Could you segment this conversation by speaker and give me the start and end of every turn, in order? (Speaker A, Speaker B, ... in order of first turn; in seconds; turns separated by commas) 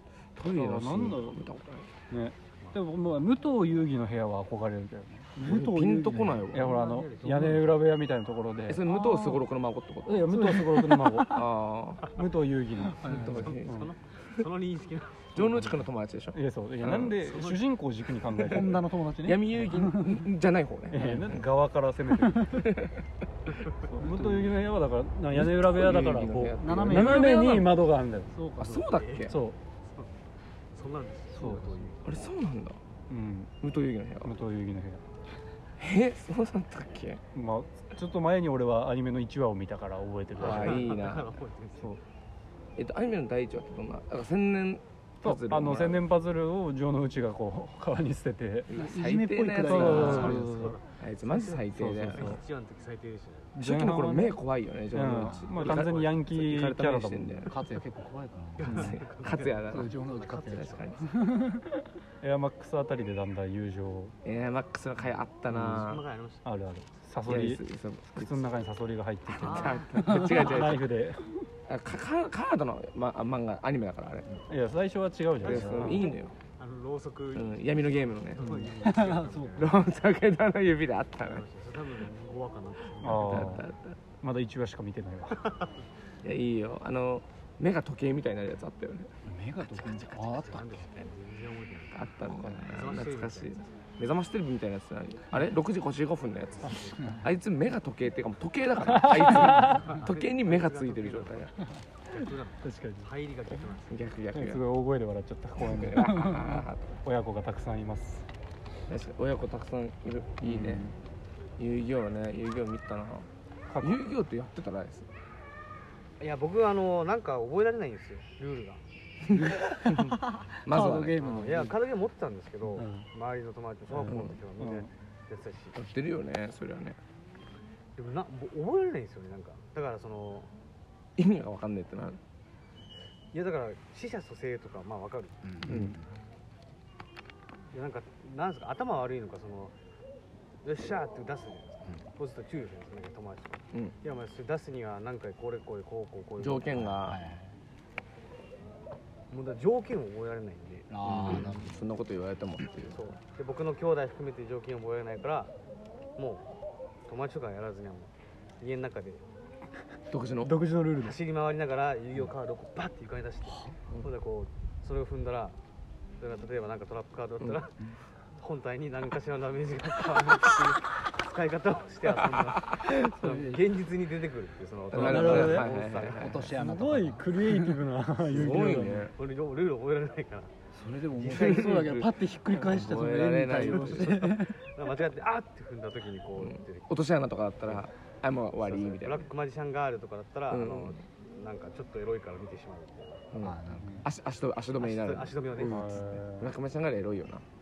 Speaker A: 0.3-1.9, Speaker B: 0.5-1.5, Speaker B: 2.1-8.8, Speaker A: 5.4-6.8, Speaker C: 6.5-7.8, Speaker D: 7.2-7.7, Speaker A: 8.7-10.4, Speaker D: 8.8-9.4, Speaker B: 10.1-11.4, Speaker D: 10.3-11.5, Speaker A: 11.3-12.2, Speaker B: 12.1-13.9, Speaker D: 12.8-13.6, Speaker A: 13.0-13.8, Speaker C: 13.2-15.6, Speaker A: 15.3-17.3, Speaker D: 15.4-15.7, Speaker B: 16.3-19.0, Speaker C: 17.2-17.6, Speaker D: 18.4-20.3, Speaker A: 19.2-21.5, Speaker B: 20.9-22.8, Speaker A: 22.4-23.0, Speaker B: 23.8-28.3, Speaker A: 24.1-24.4, Speaker A: 25.3-27.7, Speaker D: 26.6-27.8, Speaker D: 28.3-28.8, Speaker C: 28.6-30.2, Speaker A: 28.6-29.4, Speaker B: 29.3-29.6, Speaker C: 30.7-32.1, Speaker B: 31.3-31.9, Speaker A: 32.0-32.8, Speaker B: 33.1-33.5, Speaker A: 33.6-34.4, Speaker B: 34.2-35.0, Speaker A: 35.8-37.2, Speaker B: 37.3-41.0, Speaker C: 40.4-42.0, Speaker A: 40.4-41.4, Speaker A: 42.8-46.0, Speaker B: 45.2-48.7, Speaker A: 48.7-52.4, Speaker D: 48.7-50.8, Speaker B: 49.6-50.8, Speaker C: 49.9-53.5, Speaker B: 51.7-52.4, Speaker B: 53.5-54.4, Speaker A: 53.6-57.6, Speaker B: 54.9-57.5, Speaker D: 55.1-55.5, Speaker C: 55.4-56.2, Speaker D: 57.5-59.0, Speaker C: 58.6-61.0, Speaker A: 58.7-59.9, Speaker D: 59.7-61.6, Speaker A: 60.4-61.1, Speaker B: 62.2-64.2, Speaker A: 64.2-66.0, Speaker B: 65.5-65.8, Speaker C: 65.7-66.5, Speaker B: 66.5-67.6, Speaker A: 67.2-68.6, Speaker B: 68.2-71.4, Speaker C: 69.3-70.3, Speaker A: 69.4-70.9, Speaker A: 71.7-74.3, Speaker B: 74.5-76.1, Speaker A: 75.4-76.3, Speaker C: 75.4-79.9, Speaker A: 77.3-78.7, Speaker D: 78.4-79.8, Speaker A: 79.6-81.5, Speaker C: 81.2-83.6, Speaker B: 83.0-83.7, Speaker A: 83.1-84.0, Speaker B: 84.2-85.5, Speaker C: 85.3-85.8, Speaker A: 86.2-91.0, Speaker D: 89.2-90.8, Speaker C: 90.2-92.1, Speaker A: 91.9-101.5, Speaker B: 92.3-92.7, Speaker C: 92.7-93.7, Speaker C: 96.6-96.9, Speaker B: 98.8-100.0, Speaker C: 99.4-104.0, Speaker B: 102.6-103.1, Speaker A: 103.9-104.6, Speaker B: 104.3-108.3, Speaker A: 105.6-107.0, Speaker D: 106.3-106.6, Speaker A: 108.9-110.9, Speaker B: 110.4-111.0, Speaker A: 111.6-113.3, Speaker B: 113.7-114.0, Speaker A: 113.8-115.1, Speaker C: 116.2-118.8, Speaker A: 119.3-121.2, Speaker D: 119.3-121.8, Speaker C: 121.1-125.8, Speaker B: 122.8-123.1, Speaker B: 123.9-124.9, Speaker A: 124.1-124.4, Speaker A: 125.8-127.0, Speaker C: 128.0-130.5, Speaker A: 131.2-132.2, Speaker C: 133.3-135.5, Speaker D: 135.4-136.1, Speaker A: 135.7-136.0, Speaker C: 137.7-139.8, Speaker C: 140.6-146.9, Speaker A: 146.4-147.2, Speaker D: 146.7-147.6, Speaker C: 149.3-151.5, Speaker D: 150.9-151.8, Speaker A: 151.1-153.0, Speaker C: 152.9-155.5, Speaker C: 156.2-156.5, Speaker C: 157.1-159.2, Speaker A: 160.1-160.6, Speaker B: 160.4-161.2, Speaker C: 161.0-165.6, Speaker C: 166.2-167.9, Speaker C: 168.4-176.4, Speaker A: 172.3-173.0, Speaker D: 173.2-173.7, Speaker A: 174.9-176.5, Speaker B: 174.9-175.7, Speaker D: 175.0-175.6, Speaker D: 176.1-177.9, Speaker B: 176.5-179.1, Speaker A: 178.2-179.1, Speaker C: 179.1-180.5, Speaker D: 180.7-184.6, Speaker A: 181.2-184.5, Speaker C: 181.2-181.8, Speaker C: 184.6-186.9, Speaker A: 186.4-189.3, Speaker C: 188.6-193.2, Speaker A: 190.5-191.0, Speaker A: 193.3-197.4, Speaker D: 193.4-194.1, Speaker C: 194.8-196.2, Speaker B: 195.7-196.5